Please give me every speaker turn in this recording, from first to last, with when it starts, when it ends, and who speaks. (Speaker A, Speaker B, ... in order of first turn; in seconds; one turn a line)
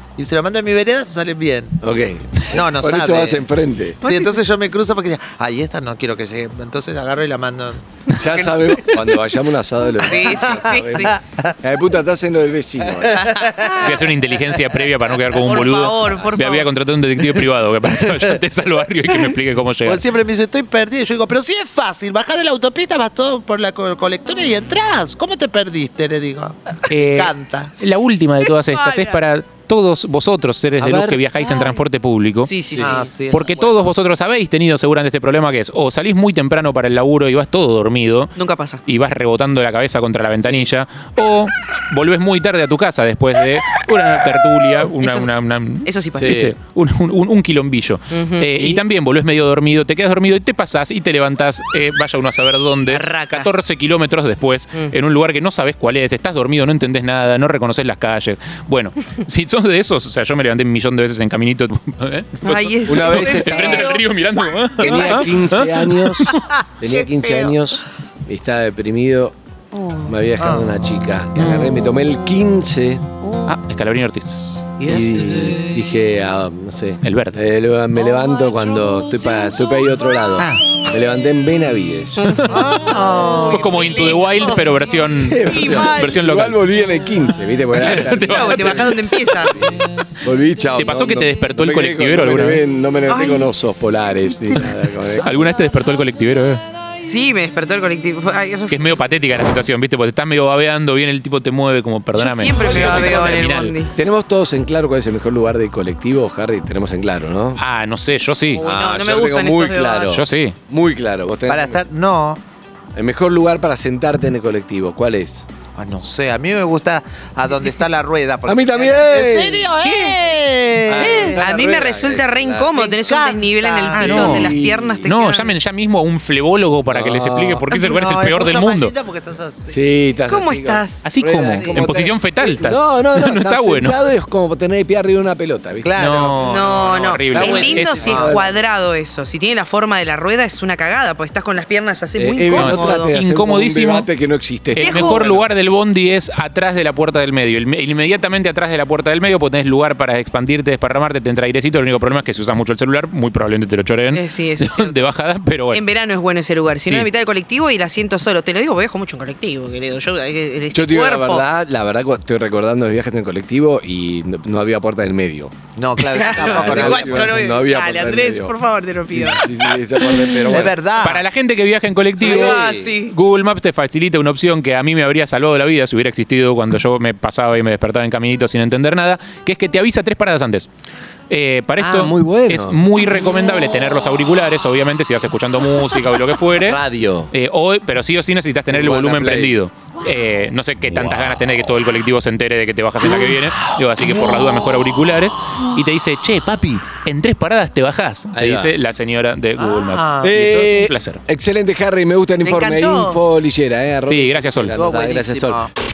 Speaker A: 0.2-1.8
Speaker B: 1.8-4.0
Speaker A: 2.5-3.4
Speaker A: 4.0-7.8
Speaker C: 4.0-4.4
Speaker C: 8.1-9.2
Speaker B: 8.1-13.2
Speaker C: 10.0-11.1
Speaker A: 10.2-11.5
Speaker C: 13.0-13.9
Speaker A: 13.0-14.0
Speaker D: 13.8-20.0
Speaker C: 15.2-16.7
Speaker A: 19.9-27.7
Speaker D: 26.9-32.5
Speaker C: 28.8-29.1
Speaker B: 30.8-31.2
Speaker C: 31.4-31.8
Speaker C: 32.4-33.1
Speaker A: 32.8-33.8
Speaker D: 33.3-38.3
Speaker C: 38.3-38.8
Speaker D: 38.9-66.3
Speaker B: 40.4-40.7
Speaker C: 45.0-45.3
Speaker C: 45.8-46.4
Speaker B: 46.1-46.5
Speaker C: 48.1-48.8
Speaker C: 52.9-53.6
Speaker C: 62.4-64.0
Speaker B: 62.9-64.0
Speaker B: 64.8-69.3
Speaker C: 64.8-65.4
Speaker C: 66.3-67.5
Speaker C: 69.7-70.2
Speaker B: 70.0-73.0
Speaker A: 70.4-70.7
Speaker C: 73.2-73.5
Speaker D: 73.4-74.7
Speaker C: 74.8-75.9
Speaker B: 74.8-82.4
Speaker D: 77.0-77.4
Speaker C: 82.2-86.0
Speaker A: 82.5-83.7
Speaker D: 83.5-86.6
Speaker B: 85.2-88.9
Speaker D: 87.7-89.7
Speaker C: 88.3-89.5
Speaker B: 90.2-95.3
Speaker D: 90.7-92.6
Speaker C: 93.1-93.7
Speaker C: 94.2-94.7
Speaker D: 95.1-96.6
Speaker C: 97.0-99.0
Speaker D: 98.7-103.8
Speaker C: 102.2-103.9
Speaker A: 102.7-103.4
Speaker B: 102.7-103.2
Speaker B: 103.9-107.6
Speaker D: 107.5-108.6
Speaker C: 108.5-110.2
Speaker B: 108.6-111.8
Speaker D: 110.1-110.6
Speaker A: 111.5-112.4
Speaker B: 113.0-115.5
Speaker A: 115.8-121.4
Speaker B: 118.4-119.7
Speaker D: 119.8-120.1
Speaker B: 120.9-122.8
Speaker C: 121.0-125.6
Speaker A: 122.7-124.4
Speaker D: 123.9-128.9
Speaker B: 124.0-125.1
Speaker B: 126.9-127.7
Speaker A: 127.7-129.9
Speaker B: 129.7-136.3
Speaker C: 130.2-131.0
Speaker D: 131.0-134.0
Speaker A: 131.3-132.1
Speaker A: 135.8-138.4
Speaker D: 135.9-138.3
Speaker C: 136.4-143.1
Speaker B: 137.7-138.5
Speaker B: 142.2-145.5
Speaker D: 142.5-144.1
Speaker D: 144.7-155.8
Speaker C: 144.8-145.3
Speaker C: 154.1-155.0
Speaker C: 155.7-161.4
Speaker B: 160.7-165.5
Speaker A: 165.8-167.3
Speaker C: 166.1-170.5
Speaker B: 166.2-168.6
Speaker B: 169.1-170.8
Speaker A: 170.4-171.2
Speaker D: 171.0-180.7
Speaker B: 172.2-172.9
Speaker C: 172.2-173.1
Speaker D: 181.3-186.8
Speaker B: 181.8-182.8
Speaker B: 186.6-187.3
Speaker D: 187.3-201.2
Speaker B: 188.7-189.6
Speaker B: 190.8-191.4
Speaker B: 198.3-198.8
Speaker A: 199.6-200.3
Speaker B: 200.2-205.7
Speaker C: 202.4-203.2
Speaker D: 204.1-204.8
Speaker A: 204.7-205.7